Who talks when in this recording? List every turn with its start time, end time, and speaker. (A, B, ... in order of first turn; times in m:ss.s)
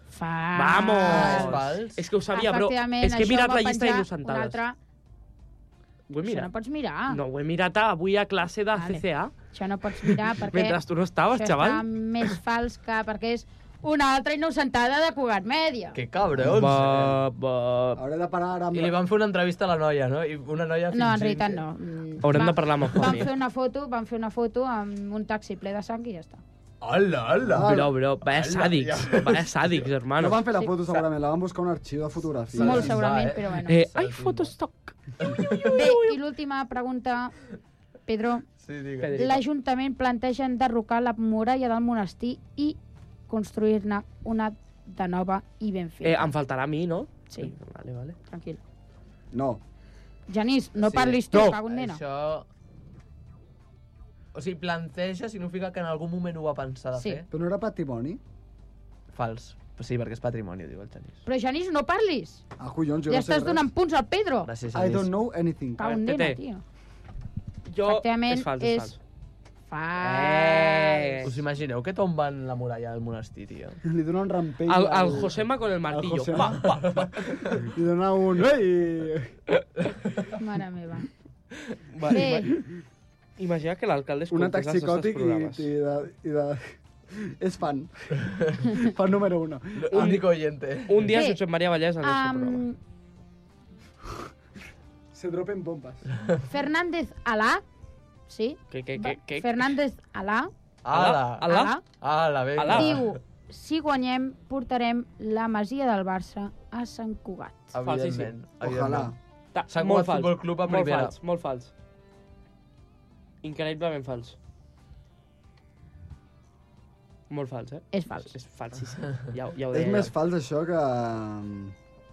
0:00.1-0:01.6 A
0:00.5-0:04.6 B
0:01.1-0:02.0 C
0:02.2-0:04.8 A
0:06.1-0:06.5 B
0:06.2-0:07.2 A
0:07.1-0:09.3 B
0:08.7-0:16.0 A
0:10.5-0:11.8 B
0:15.9-0:17.2 C
0:16.4-0:18.0 B
0:18.0-0:19.0 D
0:18.7-0:21.6 C
0:20.9-0:26.4 A
0:22.2-0:23.3 B
0:26.8-0:29.9 C
0:27.5-0:27.9 D
0:27.5-0:30.4 B
0:30.2-0:33.0 D
0:30.5-0:30.7 A
0:32.5-0:34.5 C
0:32.6-0:33.8 A
0:33.6-0:35.2 B
0:35.2-0:36.0 C
0:35.6-0:37.3 A
0:38.1-0:38.5 A
0:38.6-0:39.3 C
0:39.0-0:39.4 B
0:39.1-0:42.8 A
0:43.3-0:46.3 A
0:46.0-0:48.2 B
0:48.3-0:48.6 A
0:49.3-0:49.6 D
0:50.3-0:52.0 A
0:50.8-0:52.5 C
0:54.3-0:57.2 C
0:56.9-0:57.2 A
0:57.3-0:58.2 D
0:59.1-1:01.2 C
1:01.2-1:02.4 A
1:02.6-1:03.7 D
1:03.1-1:04.5 A
1:04.4-1:05.1 C
1:04.7-1:05.8 D
1:05.8-1:06.6 A
1:05.8-1:06.4 B
1:07.7-1:09.0 B
1:07.8-1:09.0 A
1:09.7-1:11.3 A
1:10.0-1:11.3 B
1:11.2-1:13.8 C
1:13.8-1:19.4 D
1:14.7-1:17.4 B
1:20.3-1:21.1 A
1:21.9-1:22.5 B
1:22.1-1:22.5 A
1:23.4-1:25.7 B
1:24.3-1:27.9 D
1:28.7-1:30.2 D
1:29.8-1:31.0 C
1:29.9-1:30.2 B
1:30.8-1:32.6 B
1:31.0-1:31.4 A
1:32.0-1:32.8 A
1:35.1-1:36.0 D
1:36.5-1:37.6 A
1:38.3-1:40.5 A
1:38.7-1:39.7 B
1:40.8-1:43.2 C
1:40.9-1:41.8 B
1:41.4-1:41.8 A
1:42.6-1:43.0 B
1:42.7-1:47.8 A
1:47.7-1:49.1 C
1:47.8-1:48.3 B
1:48.6-1:49.1 D
1:49.5-1:51.7 B
1:49.7-1:51.2 C
1:53.4-1:54.4 B
1:57.3-2:00.1 B
1:57.9-1:58.3 A
1:59.7-2:01.7 D